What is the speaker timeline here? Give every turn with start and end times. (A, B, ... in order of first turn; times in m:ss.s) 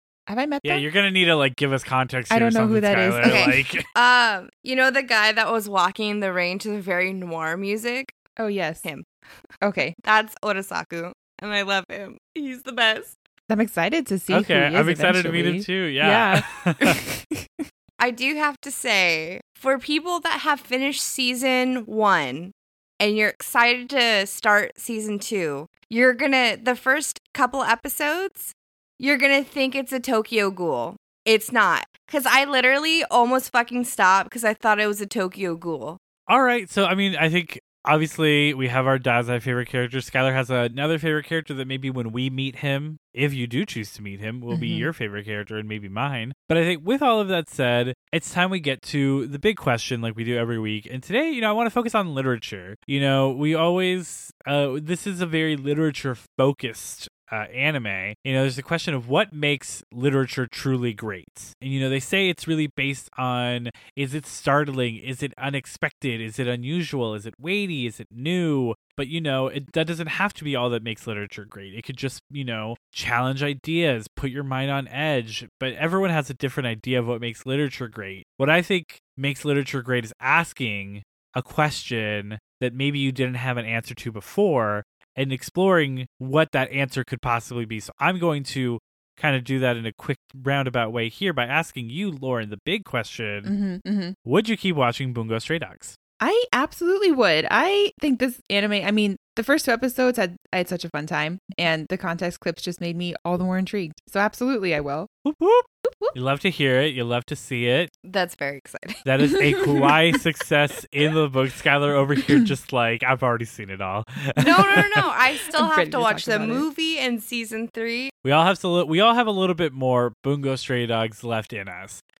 0:00.3-0:00.8 A
0:00.6-0:03.9 B
0:02.3-0:03.6 A
0:03.2-0:08.1 C
0:08.4-0:08.9 A
0:09.6-0:10.0 A
0:10.0-0:13.2 C
0:13.5-0:17.5 A
0:14.3-0:17.0 B
0:18.0-0:36.0 C
0:36.3-1:33.5 B
0:44.5-0:44.9 A
1:33.4-1:34.2 A
1:34.2-1:36.0 B
1:36.2-1:45.1 A
1:45.2-1:47.9 B
1:48.0-1:49.0 C
1:49.0-1:55.0 B
1:49.5-1:50.2 A
1:54.4-1:58.1 C
1:55.6-1:56.7 A
1:58.2-2:02.0 B